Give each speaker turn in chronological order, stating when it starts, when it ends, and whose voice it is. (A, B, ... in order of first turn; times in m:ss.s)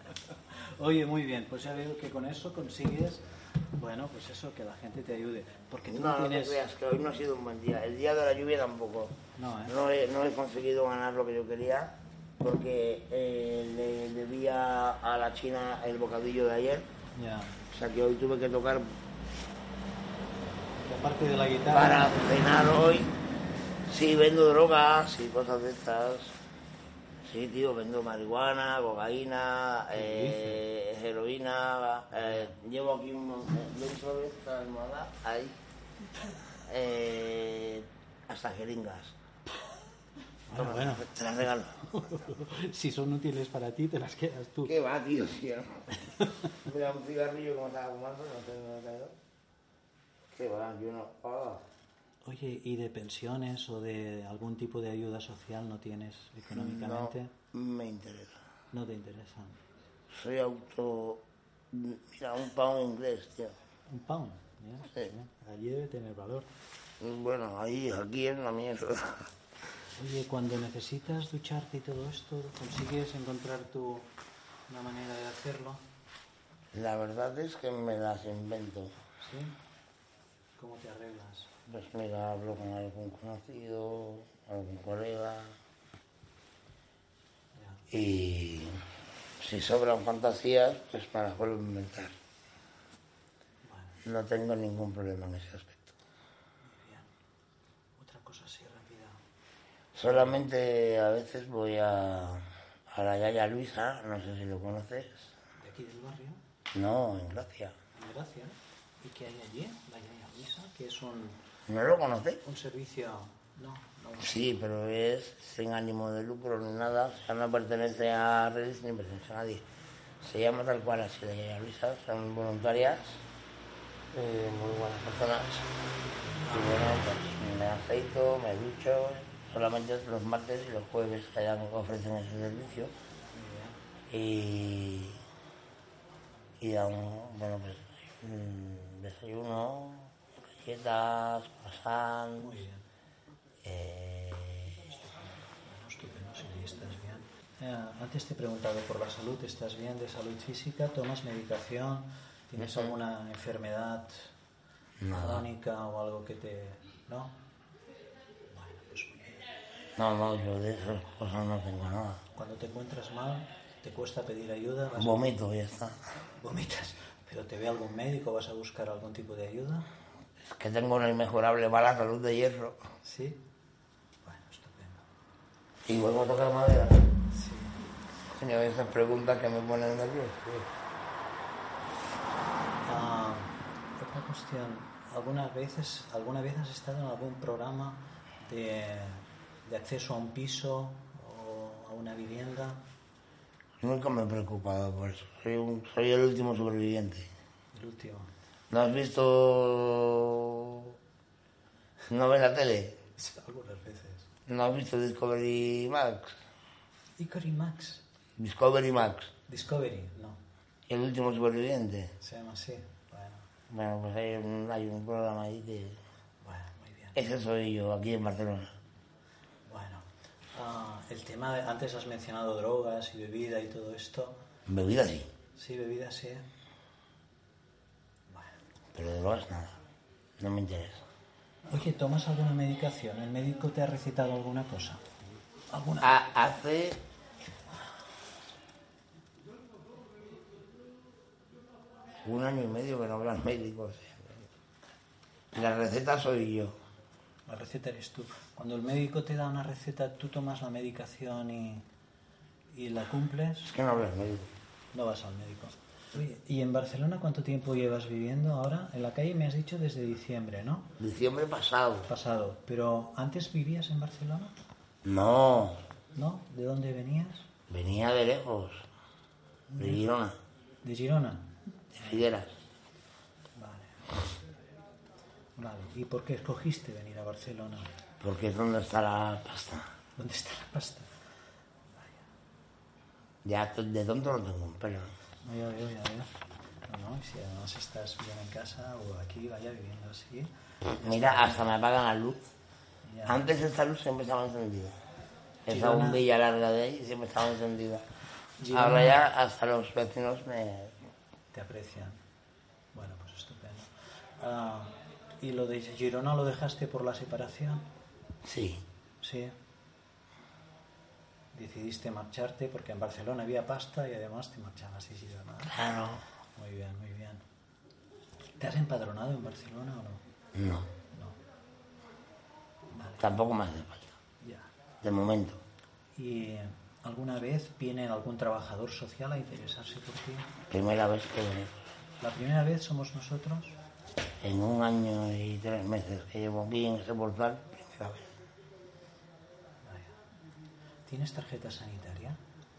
0:00.6-0:06.6 A
0:05.9-0:16.9 B
0:09.4-0:09.8 A
0:17.1-0:17.6 A
0:17.7-0:19.0 B
0:20.8-0:22.2 A
0:21.7-0:23.1 B
0:23.9-0:26.4 B
0:27.2-0:35.6 B
0:29.9-0:30.6 A
0:32.2-0:32.5 A
0:36.7-0:39.2 B
0:40.5-0:41.2 A
0:40.6-0:42.1 B
0:41.9-0:44.7 A
0:44.6-0:45.9 B
0:46.5-0:49.2 B
0:50.3-0:51.6 B
0:52.2-0:57.3 A
0:56.5-0:58.4 B
0:58.7-0:59.6 A
1:00.1-1:03.6 B
1:03.9-1:06.5 A
1:07.0-1:09.3 B
1:10.0-1:14.1 A
1:14.7-1:15.8 A
1:16.7-1:18.9 B
1:19.2-1:19.6 A
1:20.6-1:21.5 A
1:21.7-1:25.6 B
1:27.6-1:27.9 A
1:27.9-1:28.8 B
1:29.4-1:32.1 B
1:33.6-1:34.0 A
1:34.0-1:36.0 B
1:36.6-1:37.1 A
1:38.0-1:39.2 A
1:40.0-1:45.3 B
1:40.1-1:40.4 A
1:45.6-1:46.4 A
1:46.7-1:47.7 B
1:47.9-1:51.4 A
1:51.7-1:52.4 B
1:52.4-1:54.5 A
1:54.2-1:59.6 B
2:00.2-2:03.2 B
2:04.1-2:05.7 B
2:06.5-2:12.9 B
2:13.3-2:13.8 A
2:14.1-2:15.2 B
2:16.6-2:22.6 B
2:22.4-2:22.9 A
2:23.6-2:24.9 B
2:25.0-2:34.3 A
2:32.6-2:32.9 B
2:35.0-2:35.4 B
2:35.1-2:37.4 A
2:38.5-2:39.5 A
2:40.0-2:42.2 B
2:42.3-2:45.3 A
2:45.0-2:46.0 B
2:46.4-2:49.9 A
2:50.4-2:52.8 B
2:53.0-2:53.4 A
2:54.2-2:55.1 A
2:55.8-2:57.1 B
2:57.3-2:57.9 A
2:58.3-3:00.7 B
3:02.8-3:12.8 A
3:13.8-3:17.3 B
3:17.7-3:18.3 A
3:18.7-3:21.0 B
3:22.1-3:23.0 B
3:23.2-3:24.3 A
3:24.5-3:26.4 B
3:27.2-3:28.0 A
3:28.4-3:29.3 B
3:29.5-3:30.4 A
3:30.9-3:32.1 B
3:32.2-3:33.5 A
3:33.7-3:36.0 B
3:36.4-3:37.2 A
3:37.2-3:38.7 B
3:39.6-3:44.4 A
3:44.7-3:45.3 B
3:45.6-3:46.5 A
3:48.3-3:48.6 A
3:49.0-3:49.8 B
3:50.4-3:51.0 B
3:51.7-3:55.0 A
3:55.7-3:56.2 A
3:56.0-3:57.0 B
4:02.2-4:04.4 B
4:05.5-4:06.8 B
4:07.5-4:11.9 A
4:12.7-4:13.7 A
4:13.7-4:14.5 B
4:14.9-4:21.0 A
4:21.0-4:22.1 B
4:22.0-4:24.6 A
4:25.0-4:25.8 B
4:26.1-4:27.5 A
4:27.7-4:28.9 B
4:29.7-4:30.1 A
4:29.8-4:30.4 B
4:30.8-4:32.4 A
4:31.9-4:32.6 B
4:33.6-4:34.4 A
4:35.6-4:38.0 A
4:38.2-4:39.9 B
4:40.2-4:41.1 A
4:41.9-4:42.2 A
4:43.4-4:45.1 B
4:45.4-4:46.3 A
4:46.9-4:51.6 A
4:51.0-4:52.4 B
4:53.0-4:53.4 A
4:53.3-4:55.0 B
4:55.7-4:58.0 B
4:55.7-4:56.2 A
4:58.6-4:59.2 A
4:58.7-5:01.0 B
5:01.5-5:02.2 A
5:02.9-5:07.9 A
5:08.4-5:08.8 B
5:09.2-5:09.6 A
5:11.5-5:15.8 A
5:15.7-5:16.2 B
5:16.6-5:17.4 A
5:18.6-5:20.2 A
5:20.6-5:20.9 B
5:21.1-5:21.4 A
5:22.9-5:23.3 A
5:23.2-5:24.1 B
5:24.4-5:24.7 A
5:25.0-5:25.6 B
5:26.2-5:30.6 A
5:30.7-5:31.8 B
5:32.2-5:33.8 A
5:34.4-5:38.3 B
5:39.8-5:40.2 A
5:41.0-5:42.4 A